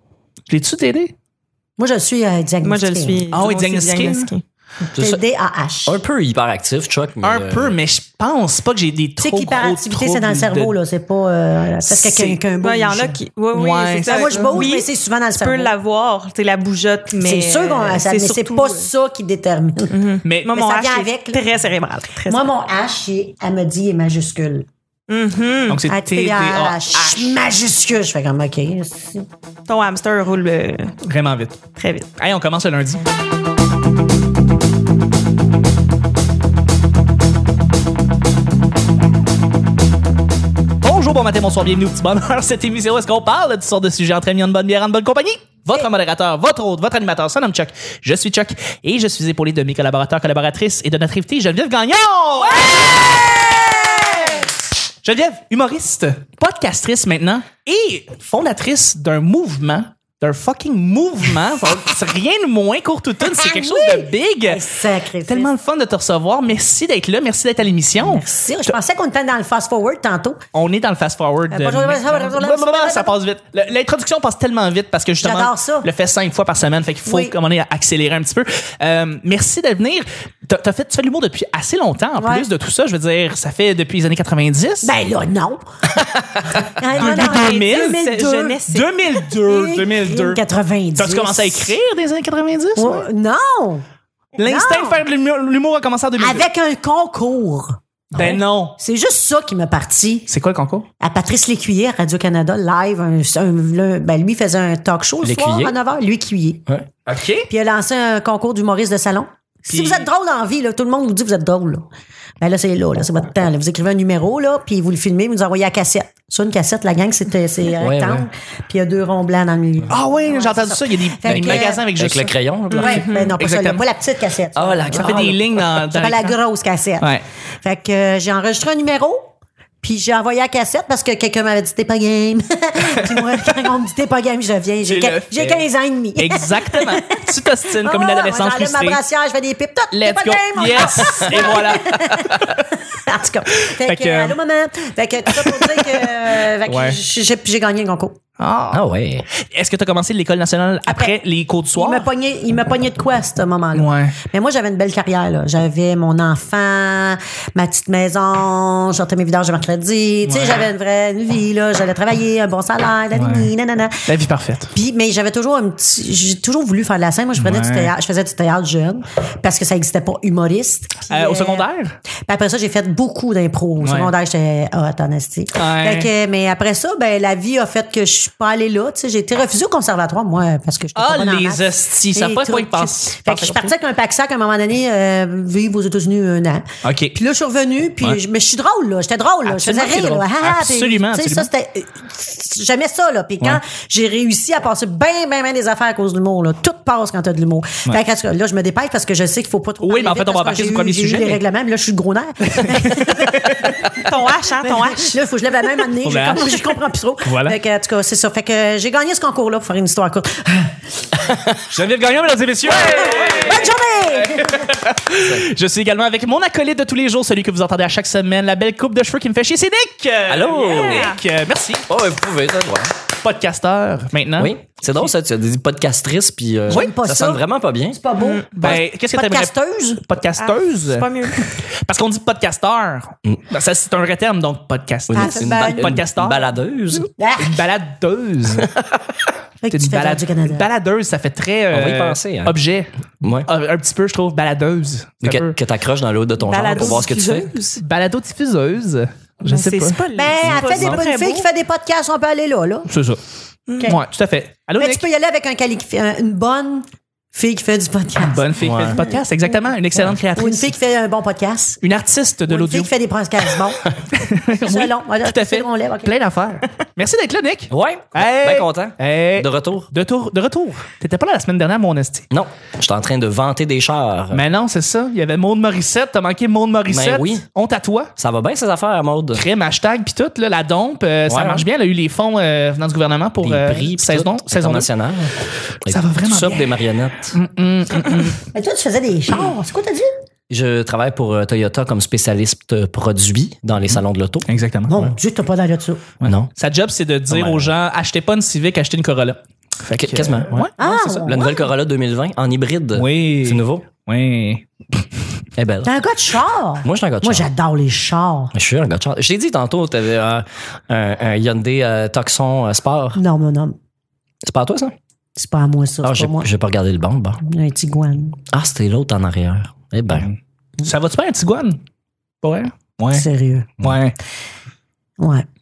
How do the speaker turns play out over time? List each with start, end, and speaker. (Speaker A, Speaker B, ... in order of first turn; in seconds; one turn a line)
Speaker A: 0.5-1.1
Speaker B: 1.8-3.2
Speaker C: 2.6-4.4
Speaker A: 3.3-4.3
Speaker B: 4.8-6.0
Speaker D: 4.9-5.2
Speaker D: 5.9-7.8
Speaker A: 7.2-10.7
Speaker B: 9.2-13.2
Speaker A: 11.8-12.4
Speaker C: 12.6-18.9
Speaker A: 13.5-14.7
Speaker B: 14.0-15.7
Speaker B: 17.2-21.5
Speaker C: 19.9-22.4
Speaker A: 20.2-20.6
Speaker B: 22.3-24.7
Speaker C: 25.1-25.9
Speaker A: 25.7-27.3
Speaker B: 25.9-29.3
Speaker C: 29.7-31.0
Speaker A: 31.0-31.6
Speaker C: 31.8-32.1
Speaker A: 32.2-33.0
Speaker A: 40.8-53.0
Speaker B: 52.6-54.5
Speaker A: 55.0-68.7
Speaker B: 63.3-65.5
Speaker B: 68.0-70.4
Speaker A: 70.5-84.9
Speaker B: 71.5-73.2
Speaker B: 75.2-75.9
Speaker B: 77.1-77.3
Speaker B: 82.2-82.5
Speaker B: 84.8-88.6
Speaker A: 87.0-88.1
Speaker C: 87.0-88.9
Speaker A: 88.7-90.4
Speaker B: 89.4-91.8
Speaker A: 91.0-93.1
Speaker B: 92.8-93.8
Speaker A: 94.4-96.5
Speaker B: 94.4-95.0
Speaker B: 96.2-100.3
Speaker D: 98.1-98.4
Speaker A: 98.1-98.8
Speaker A: 100.3-100.9
Speaker B: 101.0-106.6
Speaker D: 105.2-105.8
Speaker A: 107.1-107.5
Speaker B: 107.5-111.9
Speaker A: 109.7-110.0
Speaker B: 112.4-121.9
Speaker D: 117.8-118.3
Speaker A: 119.9-123.8
Speaker D: 121.2-122.9
Speaker C: 122.7-123.4
Speaker B: 122.7-127.1
Speaker D: 124.5-125.2
Speaker A: 124.9-126.4
Speaker B: 127.6-129.3
Speaker B: 129.8-148.2
Speaker A: 133.0-133.7
Speaker A: 134.9-135.7
Speaker A: 136.2-139.0
Speaker A: 139.9-142.6
Speaker A: 143.8-144.4
Speaker A: 145.3-147.0
Speaker A: 148.4-148.8
Speaker D: 148.7-149.3
Speaker A: 149.5-152.1
Speaker B: 150.9-151.1
Speaker B: 151.8-164.1
Speaker A: 153.7-154.2
Speaker A: 160.2-160.7
Speaker A: 163.2-163.5
Speaker A: 164.1-164.7
Speaker B: 164.7-171.7
Speaker A: 167.4-167.9
Speaker A: 171.1-172.0
Speaker B: 172.3-204.1
Speaker A: 173.8-174.1
Speaker A: 175.6-176.1
Speaker A: 180.9-183.7
Speaker A: 186.8-187.2
Speaker A: 189.4-191.5
Speaker A: 199.8-201.4
Speaker A: 202.5-203.8
Speaker C: 204.0-205.2
Speaker B: 204.6-210.8
Speaker A: 206.0-206.7
Speaker A: 207.2-207.6
Speaker D: 211.2-211.6
Speaker A: 211.7-221.9
Speaker B: 212.7-214.6
Speaker D: 220.3-221.1
Speaker C: 220.6-221.2
Speaker D: 221.9-222.9
Speaker A: 223.2-224.5
Speaker D: 224.4-228.0
Speaker B: 226.7-227.4
Speaker B: 227.9-230.0
Speaker C: 228.2-228.5
Speaker A: 228.6-236.5
Speaker C: 230.4-231.5
Speaker D: 235.1-237.1
Speaker B: 235.1-236.0
Speaker B: 237.2-237.7
Speaker A: 237.4-238.7
Speaker D: 238.6-239.0
Speaker B: 239.6-240.7
Speaker A: 239.7-245.6
Speaker D: 241.7-242.6
Speaker D: 243.2-243.5
Speaker D: 245.2-247.5
Speaker C: 246.4-247.8
Speaker A: 247.8-250.0
Speaker C: 249.5-251.5
Speaker B: 250.2-252.9
Speaker D: 250.4-251.0
Speaker A: 252.9-253.2
Speaker A: 253.8-255.0
Speaker B: 254.8-259.2
Speaker A: 258.2-260.7
Speaker D: 258.6-259.1
Speaker B: 260.4-261.8
Speaker A: 261.8-262.9
Speaker B: 262.5-263.8
Speaker A: 264.1-272.3
Speaker B: 264.6-266.1
Speaker D: 267.7-269.9
Speaker D: 272.3-274.4
Speaker A: 274.3-278.1
Speaker D: 276.9-277.4
Speaker D: 278.2-279.4
Speaker A: 279.4-284.9
Speaker D: 281.3-281.7
Speaker D: 283.4-287.4
Speaker A: 285.9-288.4
Speaker B: 288.5-290.1
Speaker D: 290.5-295.1
Speaker A: 294.5-295.0
Speaker B: 294.9-296.0
Speaker A: 296.2-300.7
Speaker D: 296.2-296.5
Speaker D: 297.3-297.7
Speaker D: 300.0-303.8
Speaker B: 300.8-301.6
Speaker A: 303.0-305.1
Speaker D: 305.6-305.9
Speaker B: 305.9-308.5
Speaker D: 306.8-307.5
Speaker D: 308.5-313.2
Speaker B: 313.1-313.8
Speaker D: 314.4-314.9
Speaker B: 315.4-316.5
Speaker D: 316.0-317.4
Speaker B: 317.4-318.4
Speaker D: 318.5-320.3
Speaker A: 320.1-321.8
Speaker A: 322.4-323.2
Speaker B: 323.1-323.7
Speaker A: 323.8-324.1
Speaker B: 325.2-325.5